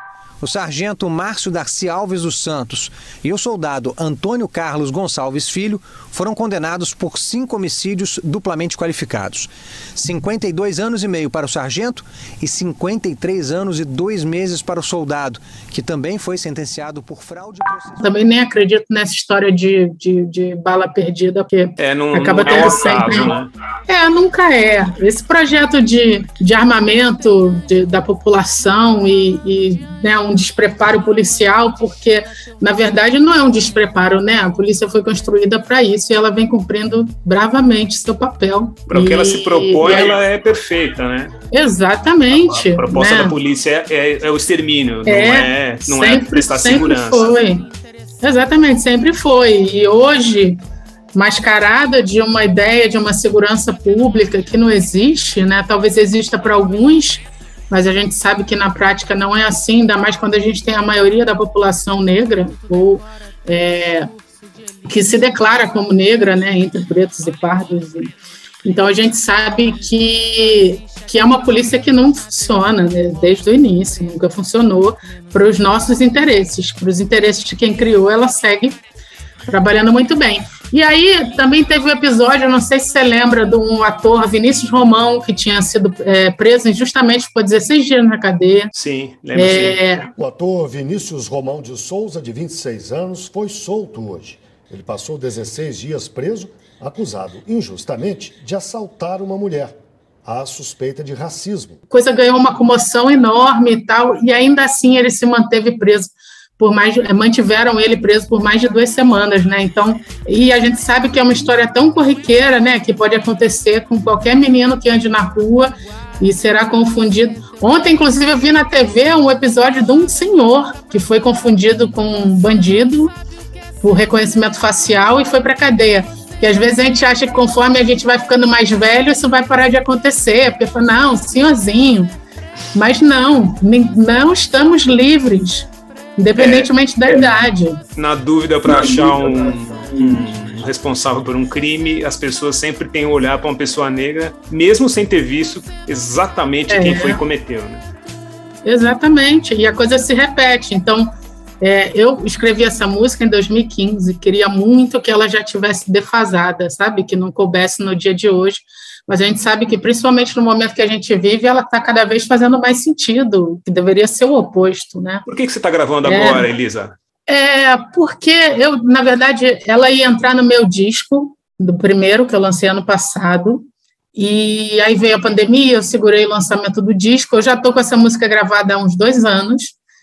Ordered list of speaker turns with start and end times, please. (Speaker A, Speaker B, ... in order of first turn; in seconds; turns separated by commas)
Speaker A: 0.4-18.0, Speaker B: 18.0-23.4, Speaker C: 21.8-23.5, Speaker B: 23.9-40.2, Speaker C: 38.9-41.3, Speaker B: 41.5-43.4, Speaker C: 42.4-47.3, Speaker B: 45.1-47.7, Speaker B: 48.2-50.6, Speaker B: 51.1-64.1, Speaker B: 64.8-68.1, Speaker B: 68.7-78.8, Speaker B: 79.5-88.7, Speaker C: 88.8-89.8, Speaker B: 89.3-90.1, Speaker D: 90.2-99.7, Speaker D: 100.2-101.8, Speaker B: 101.9-123.1, Speaker B: 123.8-132.1, Speaker B: 132.7-137.8, Speaker C: 136.4-136.7, Speaker C: 138.0-147.8, Speaker B: 138.7-139.1, Speaker B: 140.0-140.2, Speaker B: 146.7-147.2, Speaker B: 148.7-165.2, Speaker C: 165.2-166.9, Speaker B: 166.1-166.5, Speaker B: 167.3-179.8